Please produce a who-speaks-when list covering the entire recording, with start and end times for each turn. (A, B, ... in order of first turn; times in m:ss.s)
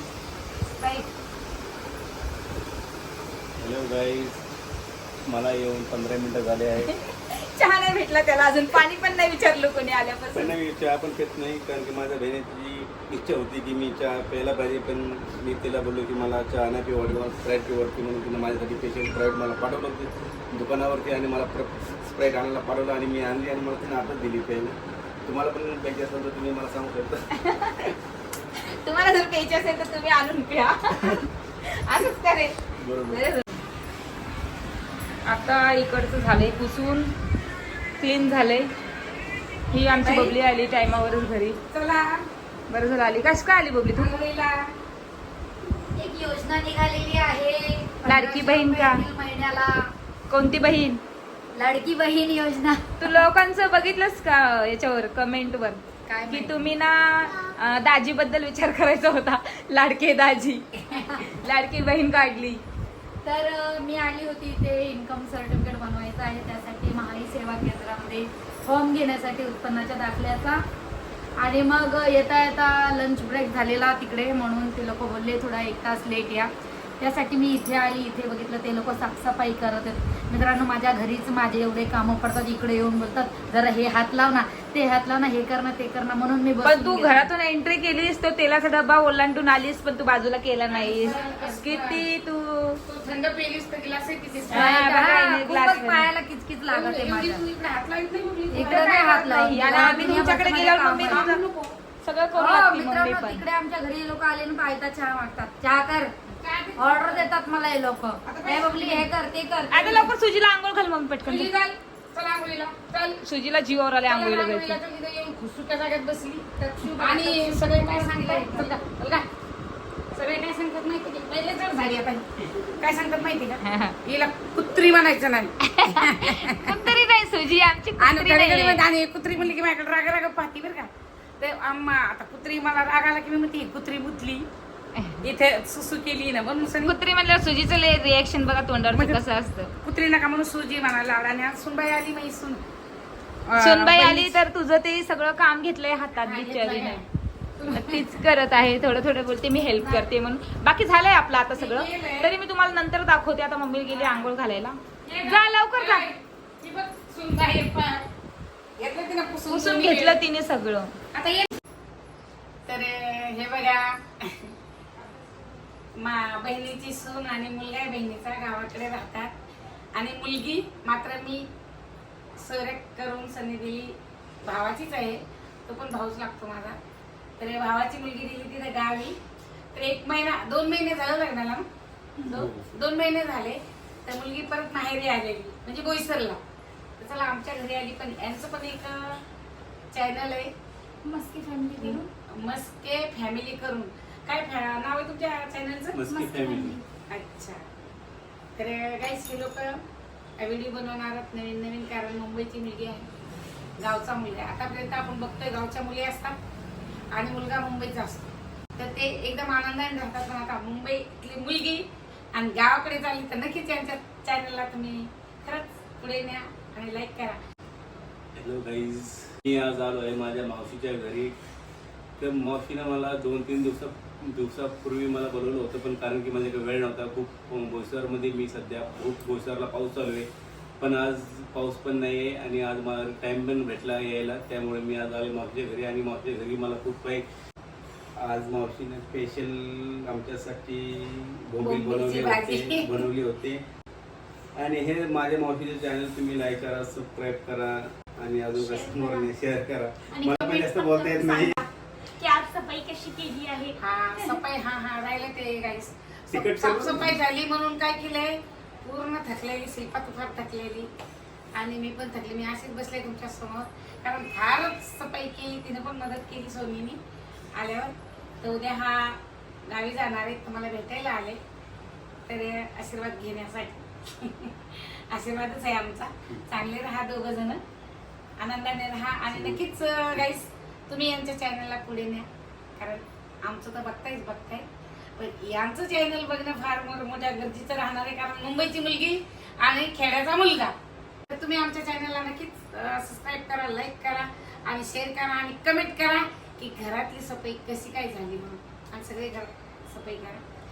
0:00.8-0:01.0 A
0:03.6-0:04.4 B
0:05.3-0:07.0 B
0:06.8-0:10.6 A
0:10.3-0:27.3 B
0:27.4-0:28.0 A
0:28.6-0:32.6 A
0:32.8-0:33.3 B
0:33.1-0:33.6 A
0:35.2-0:37.1 A
0:38.0-0:38.7 A
0:39.7-0:41.6 A
0:40.0-0:40.4 C
0:41.7-0:42.3 C
0:42.7-0:44.2 A
0:44.0-0:44.7 C
0:45.9-0:49.9 D
0:48.0-0:49.0 A
0:50.3-0:51.0 A
0:51.5-0:53.2 D
0:53.0-1:02.6 A
0:56.1-0:56.7 D
1:00.9-1:01.3 D
1:03.2-1:10.6 D
1:11.4-1:27.3 D
1:26.6-1:32.8 A
1:30.7-1:32.0 C
1:32.9-1:35.0 C
1:34.5-1:36.1 A
1:34.5-1:37.4 D
1:36.7-1:41.8 C
1:38.5-1:41.3 D
1:38.6-1:41.4 A
1:42.0-1:43.4 A
1:42.3-1:46.1 D
1:46.3-1:47.3 C
1:46.8-1:50.1 D
1:48.3-1:49.1 C
1:49.7-1:51.5 A
1:51.2-1:53.2 C
1:53.2-1:54.8 A
1:54.0-1:59.3 C
1:56.8-1:58.7 A
2:00.2-2:06.7 C
2:03.6-2:04.0 A
2:05.6-2:08.8 A
2:08.0-2:14.5 C
2:15.0-2:15.2 A
2:15.2-2:17.0 C
2:16.8-2:19.7 A
2:18.9-2:19.2 C
2:19.8-2:22.6 C
2:23.5-2:24.4 C
2:23.6-2:27.0 A
2:26.2-2:27.1 C
2:27.6-2:28.2 C
2:27.7-2:36.1 A
2:29.8-2:30.1 C
2:31.6-2:32.3 C
2:33.9-2:34.4 C
2:35.1-2:38.1 C
2:38.8-2:40.2 C
2:39.5-2:41.0 A
2:41.1-2:41.5 C
2:42.7-2:44.5 C
2:46.0-2:49.3 C
2:50.0-2:51.5 C
2:52.4-2:56.8 C
2:57.4-2:59.2 C
2:59.7-3:01.7 C
3:02.3-3:06.4 C
3:02.3-3:02.7 B
3:07.0-3:09.2 C
3:09.9-3:10.5 C
3:11.0-3:12.1 A
3:11.8-3:16.0 C
3:15.9-3:16.8 B
3:16.1-3:16.8 A
3:17.1-3:17.7 C
3:18.6-3:19.8 C
3:20.4-3:23.1 C
3:23.8-3:26.4 C
3:27.1-3:37.4 C
3:38.4-3:41.4 B
3:42.2-3:50.3 B
3:50.8-3:57.3 B
3:58.2-4:03.6 B
4:01.6-4:03.0 C
4:04.6-4:11.6 B
4:10.2-4:11.6 D
4:12.2-4:13.7 D
4:13.8-4:20.9 C
4:16.3-4:17.2 B
4:21.5-4:27.0 C
4:27.5-4:31.4 C
4:32.3-4:37.6 C
4:38.4-4:50.8 C
4:39.3-4:39.6 B
4:51.3-5:00.4 C